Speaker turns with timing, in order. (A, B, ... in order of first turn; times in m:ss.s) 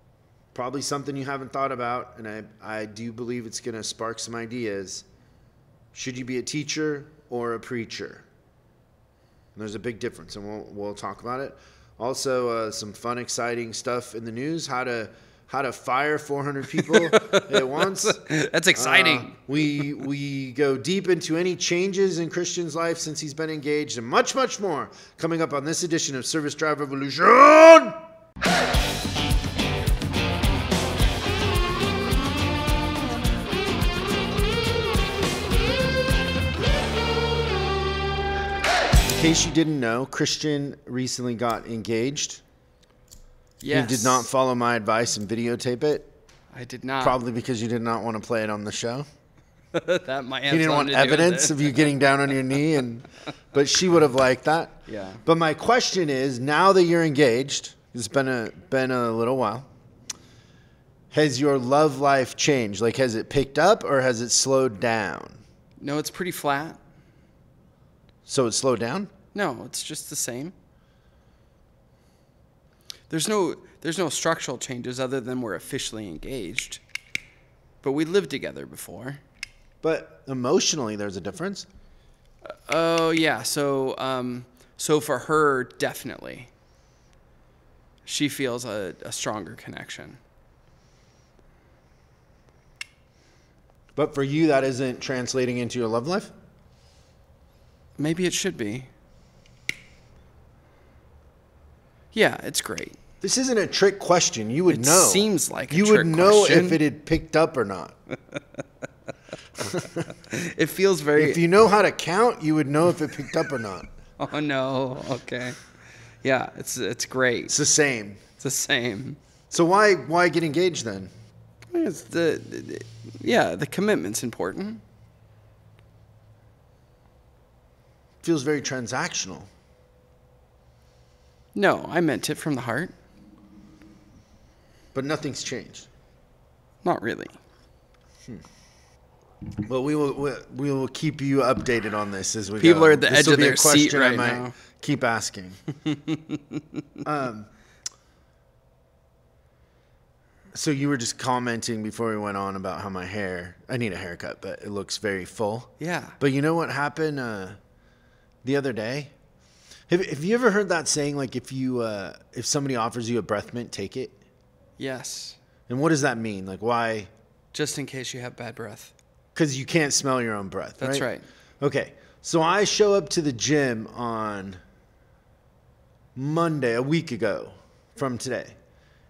0:00.5-0:05.0 A
0:05.9-0:08.2 A
0:09.6-0:18.2 A
0:16.8-0:19.3 B
0:18.7-0:28.0 A
0:39.1-0:42.4 A
0:43.6-0:44.2 B
0:43.7-0:46.1 A
0:46.5-0:47.2 B
0:47.0-0:49.0 A
0:49.7-0:52.0 B
0:50.5-0:59.7 A
0:54.9-0:55.2 B
1:01.1-1:05.4 A
1:05.8-1:06.8 B
1:08.2-1:09.1 A
1:09.3-1:10.5 B
1:13.1-1:16.8 B
1:17.8-1:19.2 B
1:19.8-1:21.7 A
1:22.5-1:26.5 B
1:28.0-1:30.2 B
1:34.0-1:36.3 A
1:38.0-1:38.9 B
1:42.1-1:43.0 B
1:43.2-1:47.9 A
1:44.7-1:46.8 B
1:49.6-1:50.0 A
1:50.1-1:51.4 B
1:51.2-1:53.9 A
1:54.2-1:55.6 B
1:56.2-1:57.5 B
1:57.5-1:58.2 A
1:58.4-1:59.2 B
1:59.5-2:01.1 A
2:01.7-2:04.8 B
2:08.2-2:09.5 A
2:11.5-2:12.9 B
2:14.9-2:15.9 A
2:16.8-2:17.4 B
2:19.6-2:25.6 A
2:22.6-2:24.5 B
2:25.8-2:26.8 B
2:27.0-2:27.5 A
2:30.5-2:37.6 A
2:35.8-2:36.1 B
2:38.4-2:39.1 A
2:39.9-2:44.1 A
2:44.8-2:45.4 B
2:45.7-2:47.1 A
2:47.5-2:48.9 B
2:49.3-2:51.1 A
2:50.8-2:51.2 B
2:51.6-2:54.6 A
2:56.2-2:58.5 A